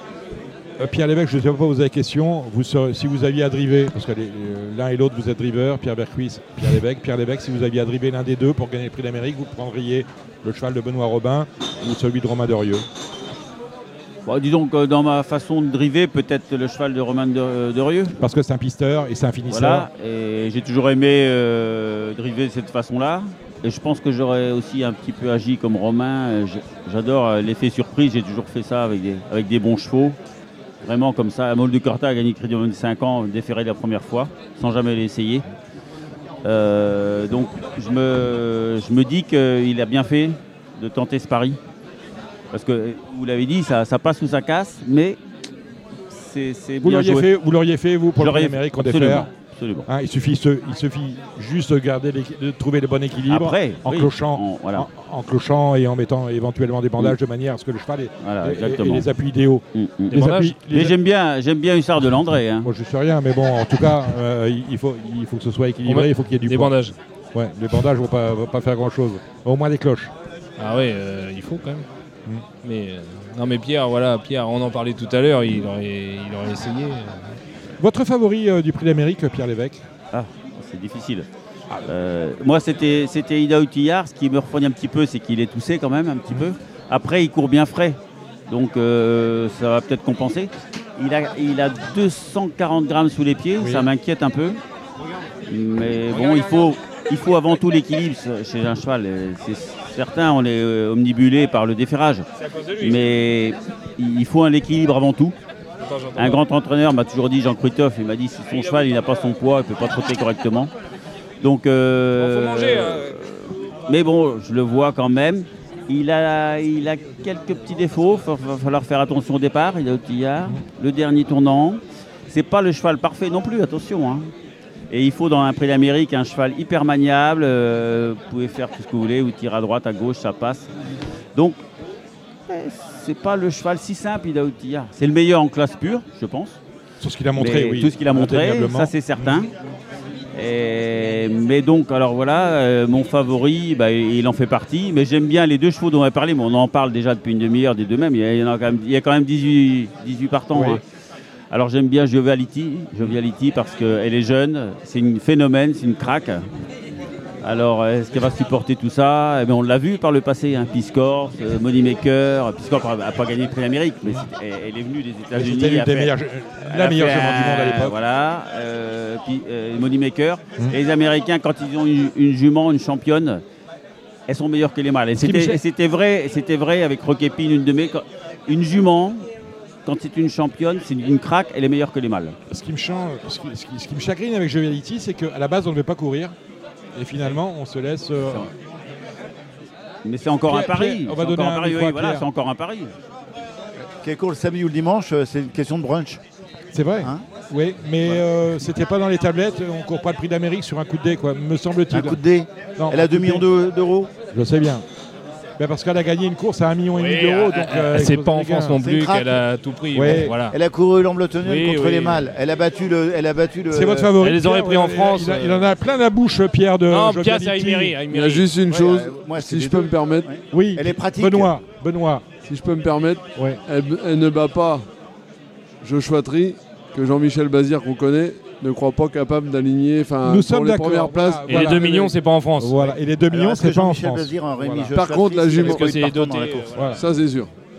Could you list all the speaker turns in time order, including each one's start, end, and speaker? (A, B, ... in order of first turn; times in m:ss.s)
0:00.8-0:12.8 A
0:14.3-0:18.2 B
0:18.2-0:19.9 A
0:19.5-0:30.2 B
0:30.8-0:35.4 B
0:36.4-0:41.6 B
0:42.5-0:45.2 B
0:46.1-0:47.3 B
0:46.8-0:49.3 A
0:48.2-0:49.9 B
0:49.9-1:01.0 A
0:53.3-0:54.9 B
0:58.2-0:59.1 B
0:59.7-1:02.7 B
1:00.1-1:00.5 C
1:02.6-1:06.8 A
1:05.9-1:07.0 C
1:07.3-1:10.1 A
1:10.6-1:11.9 C
1:12.6-1:17.4 C
1:17.8-1:19.8 A
1:20.1-1:21.3 B
1:21.9-1:28.0 B
1:28.5-1:34.6 B
1:33.6-1:33.9 A
1:35.5-1:42.3 B
1:42.6-1:42.9 C
1:42.8-1:45.4 B
1:45.8-1:46.4 C
1:46.2-1:50.7 B
1:51.4-2:04.3 B
1:52.2-1:53.2 C
2:04.9-2:10.7 B
2:12.5-2:16.6 B
2:17.0-2:19.4 A
2:17.4-2:19.5 B
2:20.3-2:30.8 B
2:30.5-2:30.8 A
2:31.5-2:36.5 B
2:37.4-2:46.1 B
2:45.3-2:48.0 A
2:46.6-2:53.4 B
2:54.3-2:59.2 B
2:55.2-2:55.6 A
2:59.9-3:02.4 B
3:02.5-3:06.4 A
3:06.9-3:08.5 A
3:10.0-3:12.9 B
3:10.5-3:12.3 A
3:14.0-3:16.2 D
3:16.7-3:22.2 A
3:21.9-3:24.1 D
3:22.8-3:23.4 A
3:24.3-3:24.8 A
3:25.6-3:28.8 A
3:27.0-3:30.6 C
3:28.8-3:29.4 D
3:29.9-3:30.4 A
3:30.0-3:34.1 D
3:31.4-3:32.3 C
3:33.7-3:38.0 A
3:34.2-3:35.7 C
3:36.9-3:38.5 C
3:38.1-3:40.3 E
3:38.7-3:41.5 D
3:40.5-3:42.2 A
3:42.5-3:44.9 E
3:45.8-3:51.9 E
3:50.2-3:54.9 A
3:51.5-3:52.9 C
3:53.3-3:56.7 D
3:54.9-3:55.9 E
3:55.6-3:57.0 C
3:56.7-3:57.0 A
3:56.9-3:57.5 E